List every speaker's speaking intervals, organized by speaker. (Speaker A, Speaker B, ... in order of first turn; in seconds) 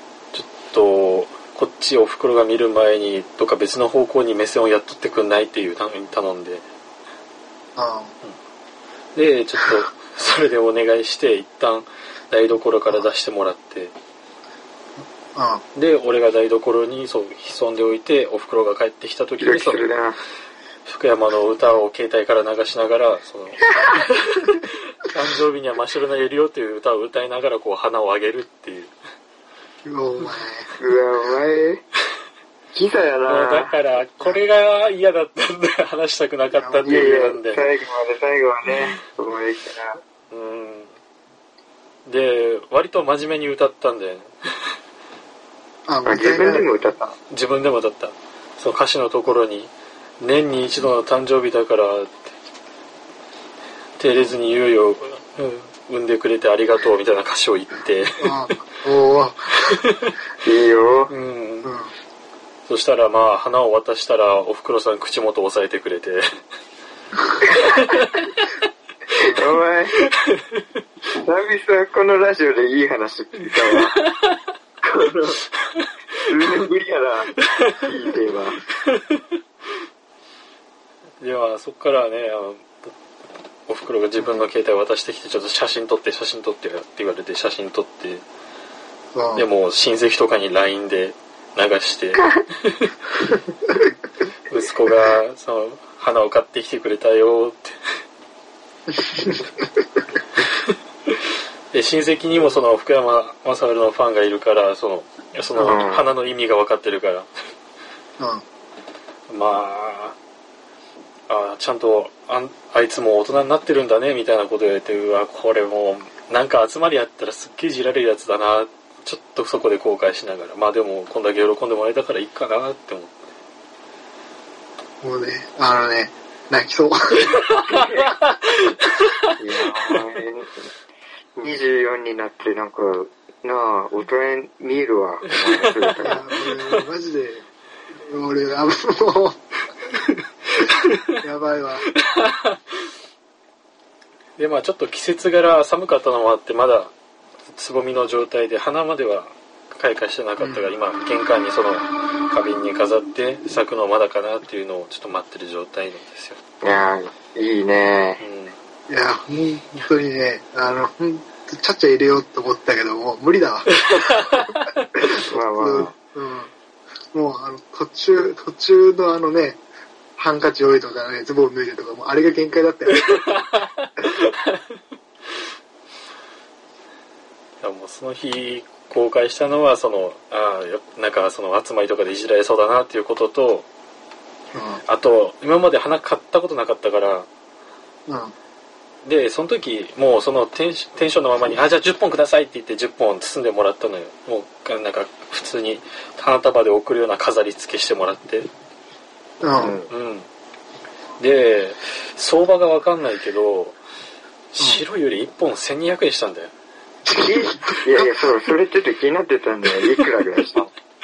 Speaker A: 0.3-6.6, 9.1-13.9, 15.7-19.9, 20.9-28.9, 33.2-37.6, 40.3-40.9, 42.0-44.3, 47.3-52.3, 54.0-58.4, 59.7-60.1, 61.1-61.7, 62.6-66.3, 67.6-68.2, 70.0-70.4, 73.7-74.3, 77.4-77.9, 78.8-79.2, 81.2-82.9, 83.7-88.2, 89.3-92.9, 94.5-97.8, 100.4-101.1, 101.7-107.3, 109.3-110.2, 111.3-123.2, 127.7-130.0, 135.3-136.8, 140.7-141.1, 142.0-142.6, 144.4-146.9, 147.5-156.4, 158.2-158.6, 163.8-164.6, 173.1-174.6, 177.6-183.7, 184.9-187.3, 189.0-198.5, 199.9-200.3, 201.2-203.8, 204.5-206.5
Speaker B: 7.8-8.1, 15.3-15.6, 29.8-30.7, 36.5-37.0, 45.9-46.7, 58.2-59.6, 61.6-61.9, 84.2-84.5, 89.1-89.5, 99.0-99.4, 108.2-108.4, 125.0-127.5, 136.0-139.4, 141.2-141.9, 150.4-150.7, 158.9-166.5, 167.1-169.6, 170.2-173.6, 184.5-184.8, 188.1-188.3, 199.4-199.8, 204.6-204.8, 207.0-208.4
Speaker C: 19.4-20.2, 30.8-31.8, 32.7-33.8, 36.8-40.0, 46.0-47.2, 60.4-61.1, 69.1-70.0, 71.1-74.0, 74.8-75.4, 76.2-78.6, 105.6-106.1, 129.4-130.6, 131.4-136.2, 156.6-158.2, 165.3-165.9, 199.6-199.9, 207.2-210.7